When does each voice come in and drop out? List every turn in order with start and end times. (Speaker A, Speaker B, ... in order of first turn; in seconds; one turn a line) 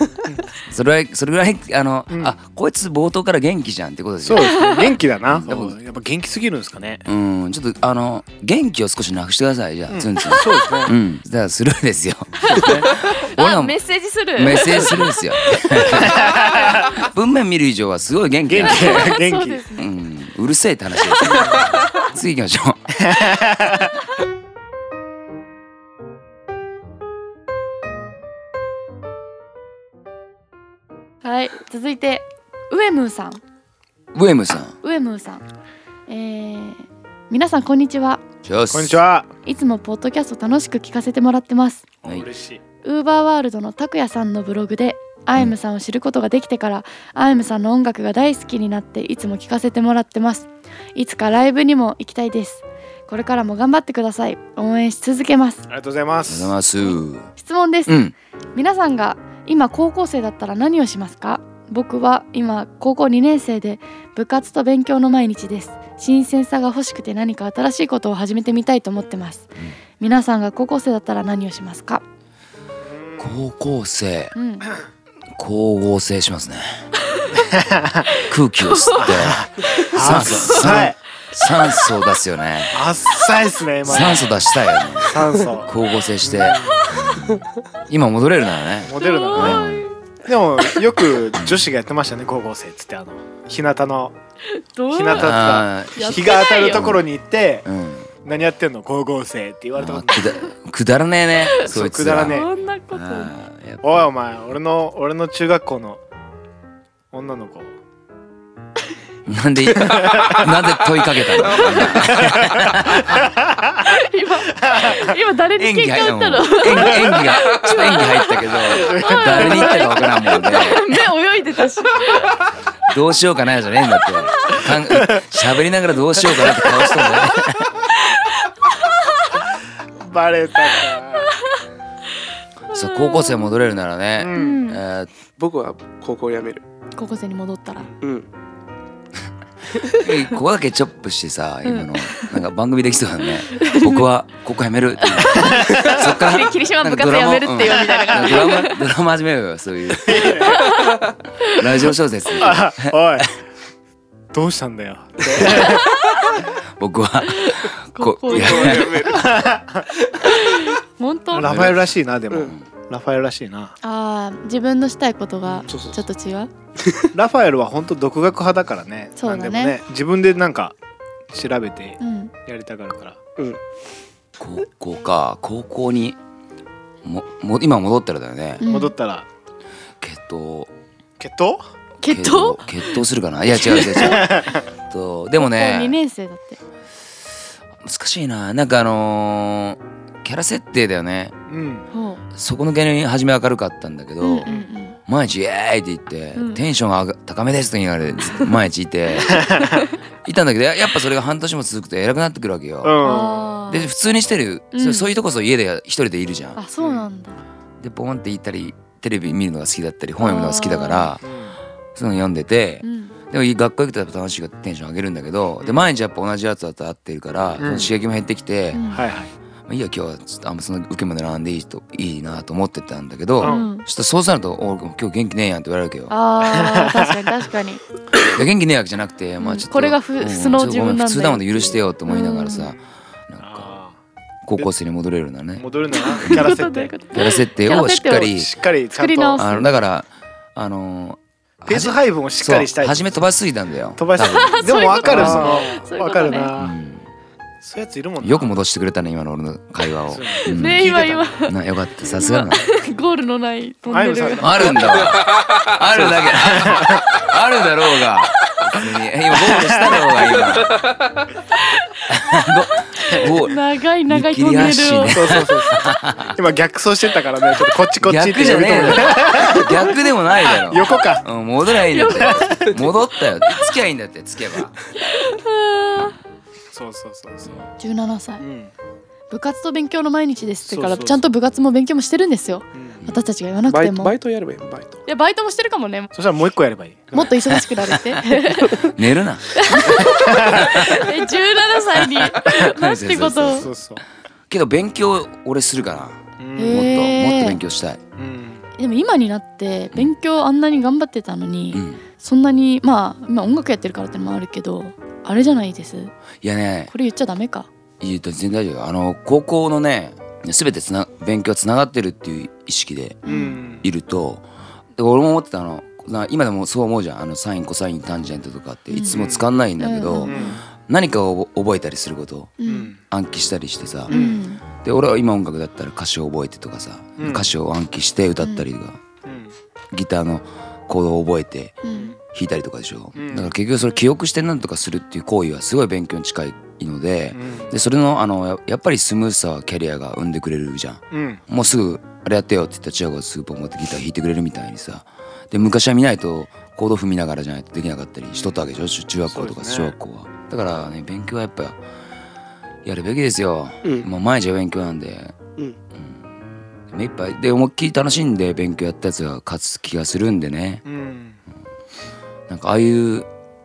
Speaker A: 0.7-4.6
Speaker B: 2.1-2.3
Speaker B: 4.2-7.0
Speaker C: 4.4-4.9
Speaker A: 5.2-5.8
Speaker A: 7.0-13.8
Speaker B: 9.9-10.9
Speaker B: 12.4-12.9
Speaker C: 12.9-16.9
Speaker A: 14.3-19.2
Speaker B: 16.0-16.8
Speaker B: 18.5-19.6
Speaker C: 18.6-19.9
Speaker A: 19.8-22.9
Speaker B: 23.0-23.9
Speaker C: 31.2-33.4
Speaker A: 34.1-34.8
Speaker C: 34.8-35.4
Speaker C: 36.1-38.2
Speaker A: 38.4-39.0
Speaker B: 38.7-39.3
Speaker C: 39.4-41.8
Speaker B: 42.0-42.6
Speaker C: 42.8-55.6
Speaker B: 55.7-56.5
Speaker A: 56.2-57.3
Speaker C: 57.4-58.0
Speaker A: 57.9-58.1
Speaker C: 58.5-72.0
Speaker B: 72.8-73.3
Speaker A: 73.2-74.3
Speaker C: 74.3-74.7
Speaker A: 75.3-76.8
Speaker B: 77.3-78.2
Speaker A: 78.2-82.8
Speaker C: 78.7-79.1
Speaker B: 79.0-81.0
Speaker B: 82.7-84.3
Speaker A: 83.8-89.8
Speaker B: 85.0-86.8
Speaker B: 88.8-89.6
Speaker C: 89.0-89.9
Speaker B: 90.2-94.2
Speaker A: 91.3-91.6
Speaker C: 94.5-97.0
Speaker B: 94.9-97.7
Speaker A: 95.1-97.1
Speaker A: 97.6-98.1
Speaker B: 98.2-100.3
Speaker A: 99.8-104.1
Speaker B: 101.6-102.5
Speaker C: 102.2-103.3
Speaker B: 103.8-106.0
Speaker B: 107.1-107.8
Speaker A: 109.2-113.3
Speaker B: 109.7-110.5
Speaker C: 111.6-112.0
Speaker B: 111.9-113.8
Speaker C: 113.8-122.4
Speaker B: 114.6-115.0
Speaker A: 115.6-121.0
Speaker B: 118.7-119.9
Speaker A: 122.9-127.8
Speaker C: 127.9-129.3
Speaker B: 130.0-131.3
Speaker A: 132.7-135.1
Speaker C: 132.7-133.5
Speaker B: 134.2-134.6
Speaker C: 134.3-134.8
Speaker D: 135.4-136.6
Speaker C: 136.9-137.9
Speaker D: 138.0-138.3
Speaker A: 140.0-150.5
Speaker C: 141.6-142.3
Speaker C: 143.5-144.1
Speaker C: 145.0-148.8
Speaker B: 145.3-146.0
Speaker B: 147.8-148.5
Speaker B: 150.1-150.7
Speaker C: 150.3-152.4
Speaker A: 151.5-153.2
Speaker B: 152.4-153.3
Speaker B: 154.3-155.9
Speaker A: 155.4-155.7
Speaker C: 155.5-156.4
Speaker A: 156.8-159.2
Speaker C: 157.2-159.2
Speaker D: 158.3-159.4
Speaker B: 159.1-159.9
Speaker C: 160.2-161.5
Speaker B: 161.3-163.8
Speaker A: 161.4-162.6
Speaker C: 163.8-166.5
Speaker D: 165.7-166.0
Speaker D: 166.8-167.1
Speaker B: 167.1-170.7
Speaker C: 169.2-169.8
Speaker B: 171.3-173.2
Speaker C: 172.0-172.3
Speaker A: 174.4-176.2
Speaker A: 177.0-178.6
Speaker C: 178.6-178.9
Speaker B: 178.6-179.2
Speaker A: 180.0-180.7
Speaker B: 181.2-181.6
Speaker C: 182.0-183.0
Speaker A: 182.1-186.0
Speaker C: 183.6-184.2
Speaker B: 183.9-184.6
Speaker C: 185.4-186.6
Speaker A: 187.8-191.3
Speaker B: 191.5-191.8
Speaker C: 191.9-192.2
Speaker A: 192.3-194.5
Speaker C: 194.2-195.0
Speaker A: 195.1-199.5
Speaker C: 196.3-196.6
Speaker B: 199.2-199.7
Speaker C: 199.6-199.9
Speaker A: 200.2-203.0
Speaker B: 202.8-203.5
Speaker C: 203.0-203.9
Speaker A: 203.7-206.6
Speaker C: 204.7-205.1
Speaker C: 206.6-207.4
Speaker B: 206.8-207.1
Speaker A: 207.8-211.2
Speaker C: 210.2-211.1
Speaker B: 211.2-211.6
Speaker A: 211.9-218.8
Speaker C: 212.8-213.1
Speaker B: 215.6-215.8
Speaker B: 217.6-217.9
Speaker C: 218.7-219.0
Speaker B: 218.9-219.3
Speaker A: 219.7-226.1
Speaker B: 223.4-223.7
Speaker C: 223.4-223.9
Speaker C: 226.1-227.8
Speaker B: 226.5-227.1
Speaker A: 228.3-233.8
Speaker C: 229.4-232.7
Speaker B: 233.4-233.9
Speaker A: 234.4-235.6
Speaker B: 235.6-236.9
Speaker C: 235.9-238.4
Speaker A: 237.1-238.5
Speaker B: 238.3-239.5
Speaker C: 238.9-239.8
Speaker A: 239.4-245.7
Speaker B: 241.7-243.2
Speaker B: 244.0-246.8
Speaker C: 244.2-246.5
Speaker A: 246.6-247.0
Speaker B: 247.6-248.5
Speaker A: 248.2-250.9
Speaker B: 250.1-251.3
Speaker C: 250.4-254.8
Speaker A: 251.4-252.6
Speaker B: 253.9-255.1
Speaker A: 254.4-260.8
Speaker D: 254.8-256.5
Speaker B: 256.3-257.1
Speaker B: 259.4-260.0
Speaker D: 260.4-261.2
Speaker C: 261.6-262.1
Speaker A: 262.1-266.4
Speaker C: 263.0-265.4
Speaker B: 265.1-271.2
Speaker A: 268.0-274.7
Speaker C: 271.9-272.7
Speaker B: 272.2-272.8
Speaker C: 275.0-276.1
Speaker B: 276.7-277.7
Speaker C: 277.8-278.4
Speaker B: 278.4-278.7
Speaker C: 279.3-284.1
Speaker B: 280.7-281.3
Speaker B: 282.7-283.0
Speaker D: 283.7-285.0
Speaker C: 285.1-286.1
Speaker B: 286.1-287.3
Speaker C: 287.1-288.9
Speaker A: 287.6-288.2
Speaker A: 288.8-291.1
Speaker C: 289.5-293.7
Speaker B: 289.9-290.9
Speaker A: 292.0-293.7
Speaker B: 293.5-294.0
Speaker A: 294.5-298.0
Speaker B: 296.4-297.0
Speaker C: 296.6-297.6
Speaker B: 298.2-298.6
Speaker C: 298.8-306.1
Speaker A: 301.7-302.0
Speaker A: 306.4-306.9
Speaker C: 306.9-307.7
Speaker A: 308.0-313.2
Speaker C: 313.2-313.6
Speaker B: 313.2-313.9
Speaker A: 313.8-329.0
Speaker C: 318.9-319.2
Speaker B: 319.1-319.5
Speaker C: 319.8-320.5
Speaker B: 320.2-320.6
Speaker C: 322.6-322.9
Speaker B: 322.6-323.0
Speaker B: 324.1-324.4
Speaker C: 324.1-324.6
Speaker B: 327.2-327.5
Speaker C: 328.4-328.6
Speaker B: 329.2-329.5
Speaker A: 329.9-331.8
Speaker C: 331.8-332.1
Speaker A: 332.3-351.8
Speaker B: 333.1-333.5
Speaker B: 337.3-337.7
Speaker B: 341.1-341.4
Speaker B: 348.4-348.6
Speaker B: 349.3-349.9
Speaker A: 352.8-355.4
Speaker A: 355.9-356.2
Speaker A: 356.9-360.8
Speaker B: 360.8-361.4
Speaker A: 362.5-363.3